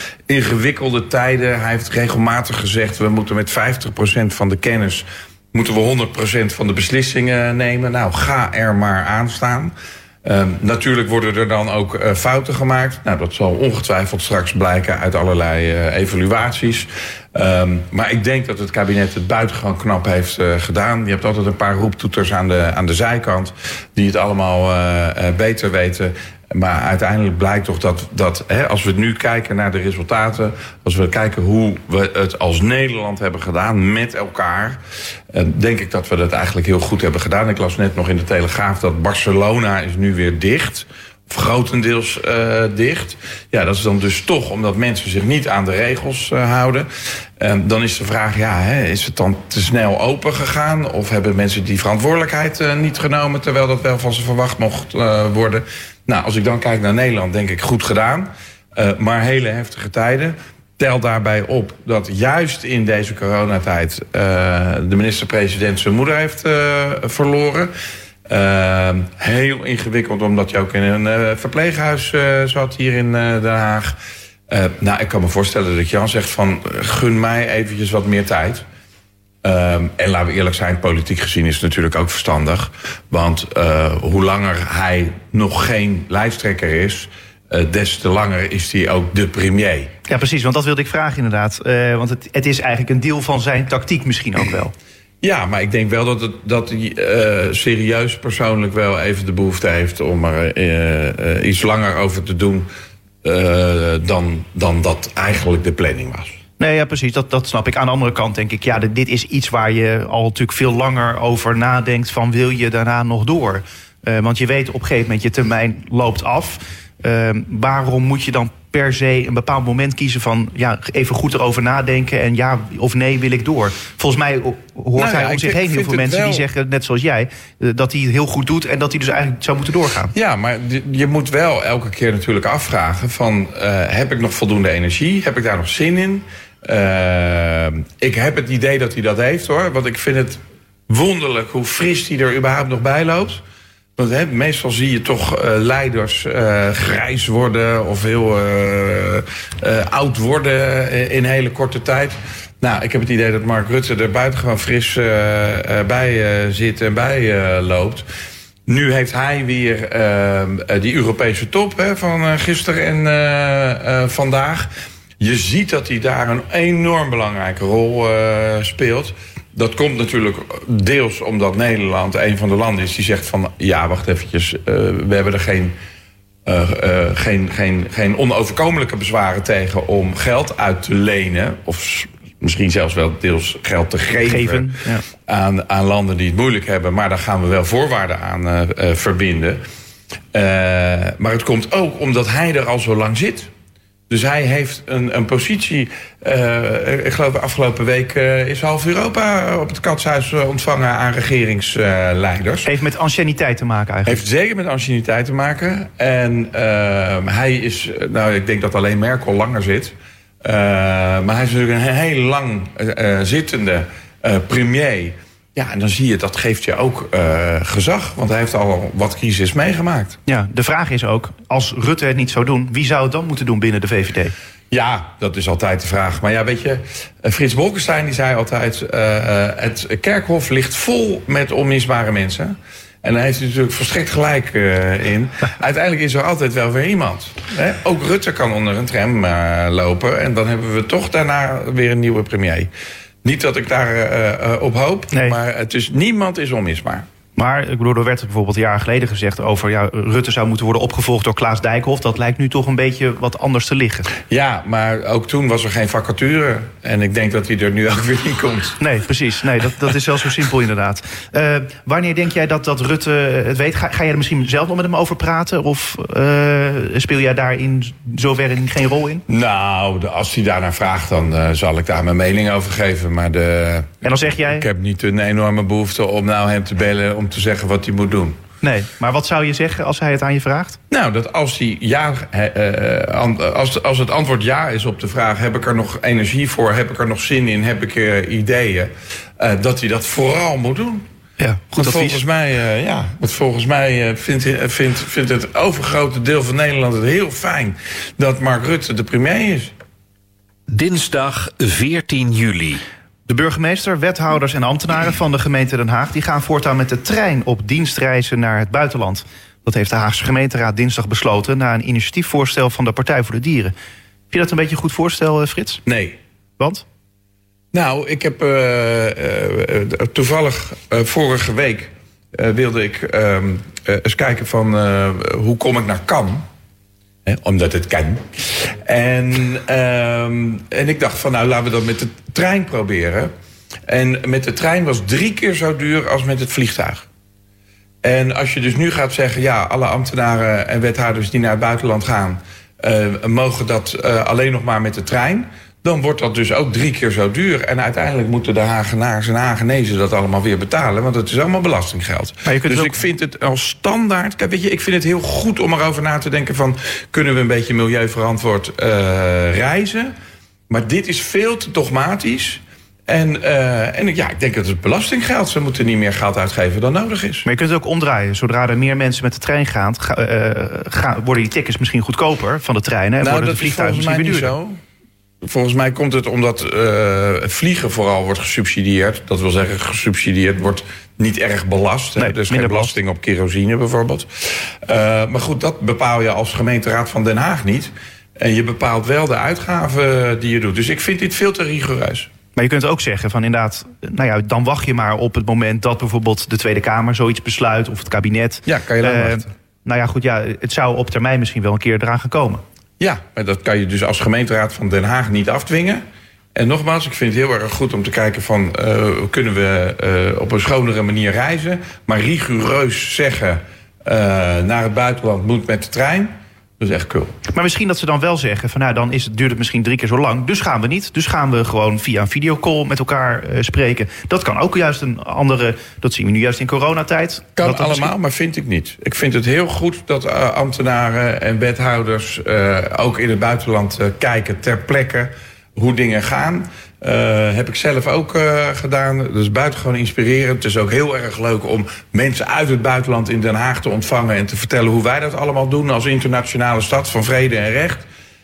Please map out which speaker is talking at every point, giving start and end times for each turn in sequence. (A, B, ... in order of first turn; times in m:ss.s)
0:00.3-0:34.8 A
0:35.3-1:07.7 A
1:08.3-1:14.0 A
1:14.5-1:18.6 A
1:19.4-1:29.9 A
1:30.1-1:34.7 B
1:35.2-1:42.7 A
1:43.2-1:46.4 A
1:46.6-2:10.1 B
2:05.0-2:06.4 A
2:10.1-2:23.4 A
2:24.0-2:38.1 A
2:38.7-2:55.8 A
2:56.5-3:04.7 A
3:04.2-3:05.0 B
3:05.3-3:09.6 A
3:10.3-3:13.5 A
3:14.1-3:22.7 A
3:22.7-3:24.2 B
3:24.1-3:40.2 A
3:40.3-3:44.4 B
3:44.7-4:02.7 A
4:03.2-4:07.1 A
4:07.4-4:14.1 B
4:14.3-4:18.8 A
4:18.8-4:29.2 B
4:29.3-4:38.4 A
4:34.0-4:34.6 B
4:38.6-4:40.8 B
4:40.9-4:51.0 A
4:51.4-4:52.2 B
4:51.7-4:59.7 A
5:00.7-5:02.8 C
5:03.3-5:13.7 B
5:14.3-5:15.8 B
5:15.9-5:16.2 A
5:16.6-5:16.8 B
5:17.7-5:26.5 A
5:27.3-5:33.3 A
5:33.9-5:37.0 A
5:38.0-6:00.1 A
5:52.4-5:53.0 B
6:00.7-6:07.5 A
6:07.4-6:14.5 B
6:13.2-6:14.8 A
6:15.4-6:24.3 A
6:22.2-6:23.0 B
6:24.8-6:32.3 A
6:32.6-6:42.6 B
6:38.7-6:39.5 A
6:43.0-6:46.0 A
6:46.6-6:57.4 A
6:57.5-7:08.1 B
7:07.6-7:28.0 A